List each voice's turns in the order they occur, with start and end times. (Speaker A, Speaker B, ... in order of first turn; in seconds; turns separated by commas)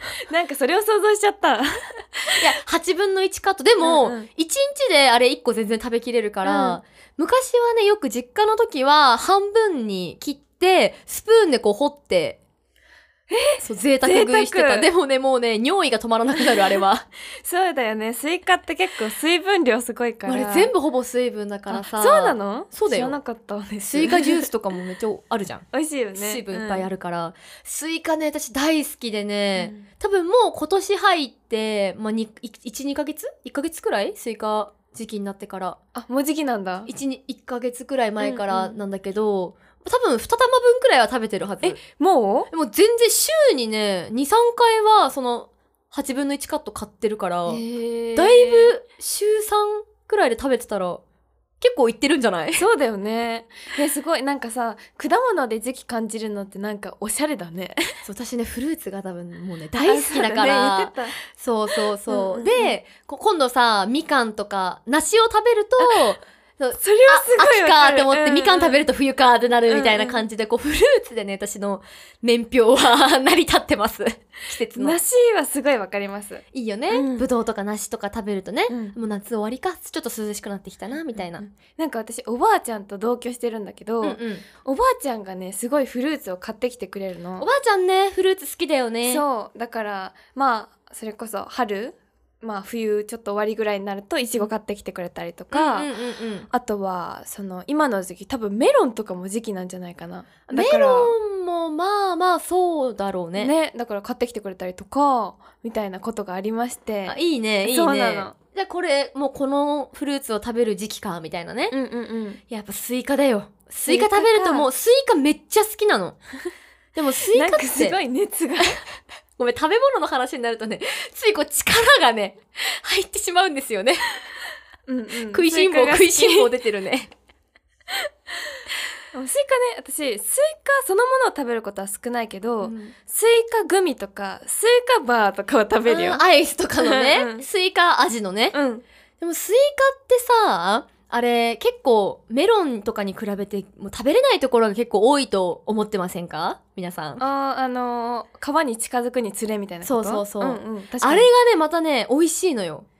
Speaker A: 0.3-2.4, Speaker B: 2.4-12.4, Speaker A: 3.8-4.3, Speaker A: 6.4-6.8, Speaker A: 13.3-14.9, Speaker B: 13.6-17.1, Speaker A: 16.4-16.8, Speaker A: 17.4-20.7, Speaker B: 20.2-23.2, Speaker A: 21.7-24.5, Speaker B: 23.8-35.8, Speaker A: 25.7-26.9, Speaker A: 29.6-29.8, Speaker A: 35.9-36.9, Speaker B: 36.9-41.8, Speaker A: 38.2-38.8, Speaker A: 41.6-42.5, Speaker B: 42.5-47.6, Speaker A: 47.5-48.7, Speaker B: 48.1-51.0, Speaker B: 51.6-52.6, Speaker A: 52.5-58.0, Speaker B: 58.0-75.0, Speaker A: 59.8-61.1, Speaker A: 61.8-62.8, Speaker A: 66.8-68.8, Speaker A: 69.7-70.2, Speaker A: 74.7-77.3, Speaker B: 76.5-81.5, Speaker A: 78.7-79.0, Speaker A: 81.2-87.5, Speaker B: 84.0-84.4, Speaker B: 87.4-89.2, Speaker A: 89.0-95.9, Speaker B: 95.5-96.5, Speaker A: 96.5-101.1, Speaker B: 100.5-103.5, Speaker A: 103.3-108.3, Speaker B: 107.0-111.7, Speaker A: 111.7-112.4, Speaker B: 112.5-116.2, Speaker A: 113.8-114.7, Speaker B: 116.9-118.0, Speaker A: 117.3-118.8, Speaker B: 119.4-124.1, Speaker A: 124.9-126.5, Speaker B: 125.3-127.1, Speaker A: 129.1-136.2, Speaker B: 135.8-138.5, Speaker A: 136.8-137.4, Speaker A: 138.5-138.8, Speaker B: 139.2-147.2, Speaker A: 147.2-151.3, Speaker B: 149.8-152.8